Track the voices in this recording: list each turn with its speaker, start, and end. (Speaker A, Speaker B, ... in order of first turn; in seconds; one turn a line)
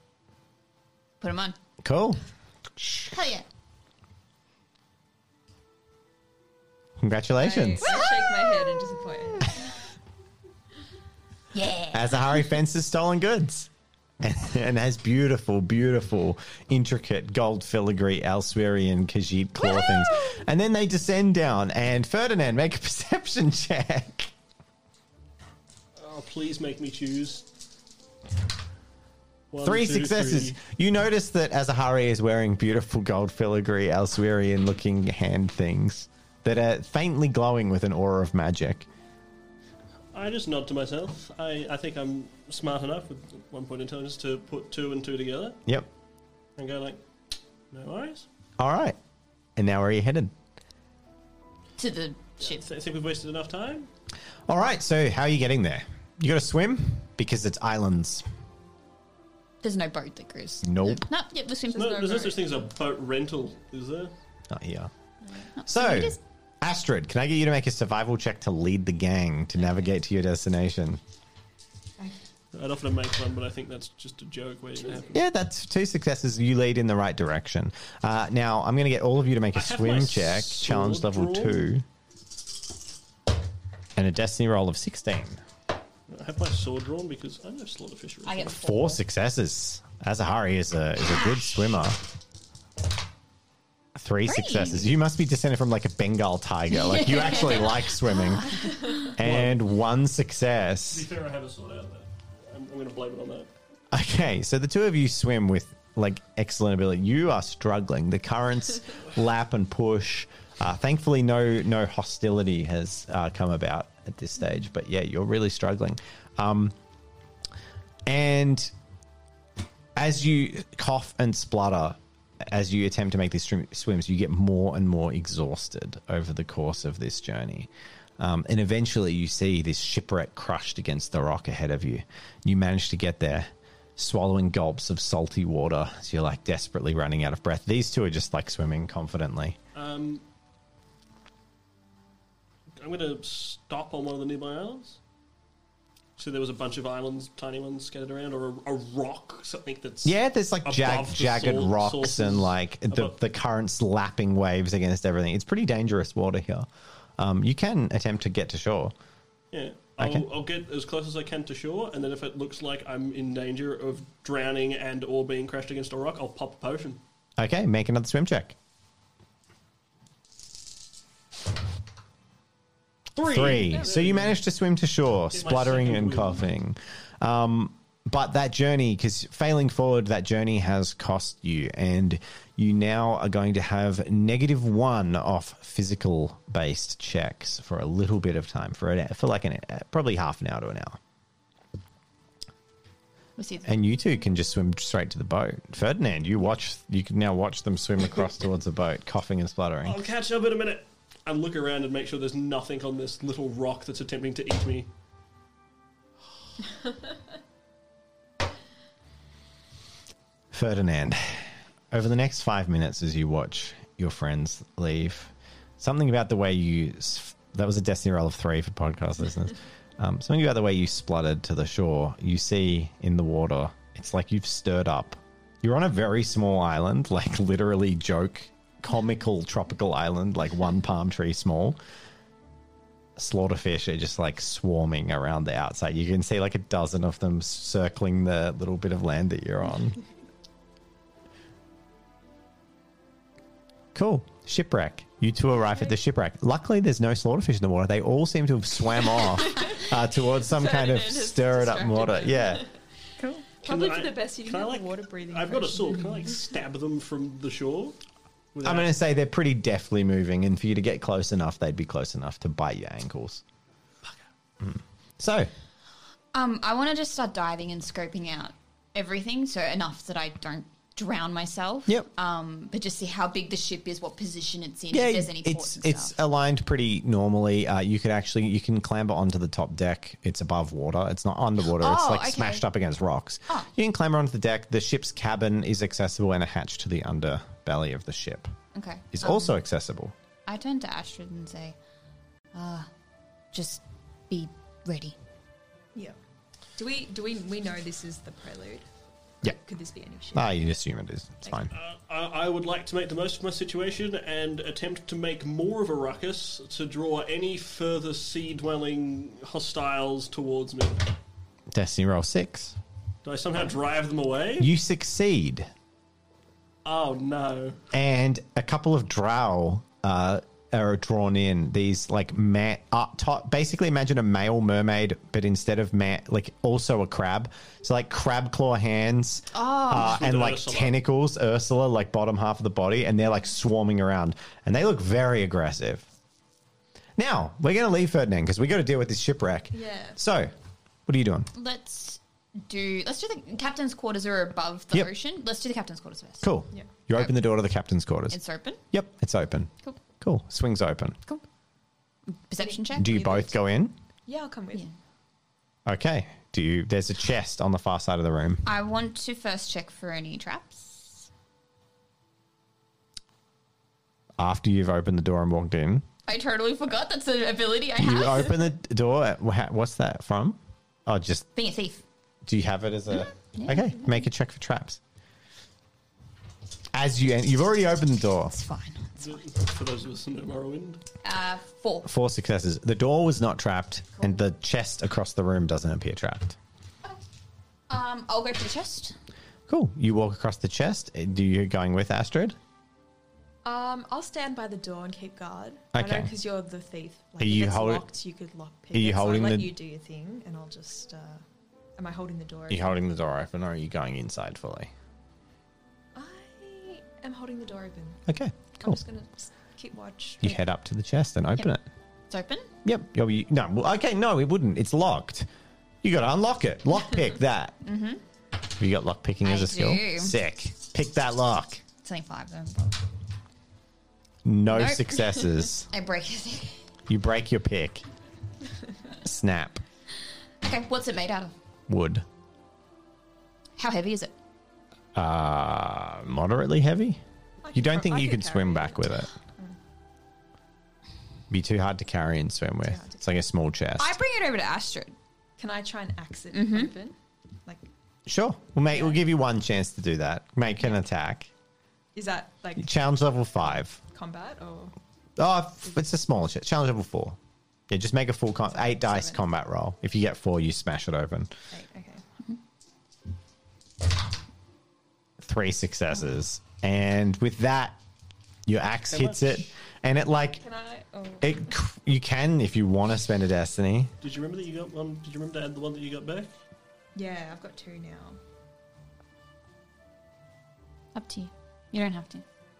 Speaker A: 1.2-1.6
Speaker B: 1.8-2.2
Speaker A: 3.0-3.5
Speaker B: 7.0-8.0
Speaker C: 7.4-9.7
Speaker A: 11.5-12.2
Speaker B: 11.9-13.7
Speaker B: 14.2-24.3
Speaker D: 26.0-27.5
Speaker D: 29.5-30.6
Speaker B: 29.6-38.9
Speaker D: 40.1-45.6
Speaker D: 46.6-47.0
Speaker D: 47.7-48.3
Speaker B: 48.6-49.0
Speaker B: 49.5-50.3
Speaker A: 51.8-52.6
Speaker D: 52.4-53.9
Speaker B: 54.5-58.2
Speaker A: 59.6-62.1
Speaker B: 60.6-61.1
Speaker C: 61.7-62.5
Speaker D: 61.7-64.1
Speaker B: 64.5-64.9
Speaker A: 65.5-66.2
Speaker B: 65.6-71.0
Speaker D: 72.5-75.2
Speaker B: 75.1-81.8
Speaker D: 79.5-81.6
Speaker B: 84.0-85.4
Speaker D: 86.1-88.5
Speaker A: 88.2-89.0
Speaker B: 88.4-92.0
Speaker B: 94.0-101.1
Speaker A: 94.2-94.9
Speaker A: 96.8-97.9
Speaker A: 98.4-98.9
Speaker D: 99.2-99.6
Speaker D: 100.9-103.5
Speaker B: 103.9-116.7
Speaker B: 118.0-118.7
Speaker B: 120.0-139.6
Speaker D: 139.7-140.2
Speaker D: 142.8-145.0
Speaker D: 146.2-153.2
Speaker B: 150.0-158.9
Speaker D: 159.5-167.0
Speaker B: 160.0-160.3
Speaker B: 167.4-168.6
Speaker D: 173.1-174.4
Speaker B: 173.2-191.0
Speaker D: 175.3-176.4
Speaker A: 193.4-193.7
Speaker B: 193.6-200.0
Speaker D: 199.8-204.9
Speaker B: 210.5-231.8
Speaker B: 233.2-240.0
Speaker B: 243.9-252.6
Speaker A: 250.6-252.4
Speaker C: 253.6-256.4
Speaker D: 253.6-258.0
Speaker D: 258.6-258.9
Speaker B: 258.6-263.4
Speaker B: 264.6-265.5
Speaker A: 266.3-276.1
Speaker B: 274.9-288.5
Speaker A: 281.8-282.6
Speaker A: 288.7-289.6
Speaker B: 289.1-290.1
Speaker A: 290.4-291.8
Speaker A: 292.5-292.9
Speaker A: 293.5-295.1
Speaker C: 296.8-298.9
Speaker C: 299.4-300.6
Speaker B: 300.3-301.7
Speaker D: 301.7-311.1
Speaker B: 311.7-312.8
Speaker D: 313.2-314.7
Speaker B: 314.6-315.7
Speaker D: 316.8-317.8
Speaker B: 317.9-336.1
Speaker A: 329.5-330.2
Speaker D: 329.9-330.9
Speaker B: 337.2-340.5
Speaker C: 339.7-340.2
Speaker B: 341.1-341.5
Speaker A: 341.5-346.5
Speaker B: 346.4-348.4
Speaker A: 348.3-348.8
Speaker B: 348.9-351.2
Speaker A: 352.3-353.5
Speaker C: 352.6-353.4
Speaker B: 352.9-353.9
Speaker C: 354.3-354.9
Speaker B: 355.9-358.6
Speaker A: 358.6-361.3
Speaker B: 364.4-366.1
Speaker A: 366.3-368.7
Speaker B: 368.0-371.5
Speaker A: 371.6-372.0
Speaker B: 372.4-375.0
Speaker A: 373.5-374.2
Speaker B: 376.9-378.5
Speaker A: 378.5-379.4
Speaker D: 379.2-381.0
Speaker A: 381.2-382.1
Speaker B: 382.1-386.6
Speaker A: 387.9-389.1
Speaker B: 389.7-392.6
Speaker C: 393.6-401.4
Speaker B: 395.9-396.3
Speaker B: 397.4-398.1
Speaker B: 398.9-399.7
Speaker C: 402.0-402.9
Speaker B: 402.7-404.9
Speaker C: 406.1-408.2
Speaker B: 408.3-409.0
Speaker C: 408.8-410.6
Speaker B: 410.4-411.8
Speaker A: 412.3-412.7
Speaker B: 412.8-415.5
Speaker B: 416.0-417.8
Speaker A: 417.8-418.2
Speaker B: 418.8-421.8
Speaker A: 419.4-420.3
Speaker A: 422.0-423.0
Speaker B: 424.4-425.9
Speaker A: 424.7-426.8
Speaker B: 427.1-428.1
Speaker B: 429.2-429.8
Speaker A: 430.6-431.5
Speaker B: 431.9-432.2
Speaker A: 433.8-434.3
Speaker B: 435.1-437.2
Speaker C: 437.6-439.8
Speaker B: 437.7-439.3
Speaker B: 441.5-444.1
Speaker C: 442.9-443.3
Speaker A: 444.0-445.1
Speaker C: 445.6-447.9
Speaker A: 446.5-446.9
Speaker B: 448.3-451.5
Speaker C: 448.9-449.2
Speaker C: 452.1-453.0
Speaker B: 452.8-454.0
Speaker C: 454.1-454.9
Speaker B: 455.4-457.4
Speaker B: 457.9-461.5
Speaker C: 458.7-459.4
Speaker C: 461.7-462.2
Speaker B: 465.4-468.0
Speaker B: 468.7-470.6
Speaker D: 469.1-469.6
Speaker C: 470.6-471.6
Speaker B: 471.4-474.1
Speaker D: 474.2-476.5
Speaker C: 477.1-478.4
Speaker A: 481.1-482.4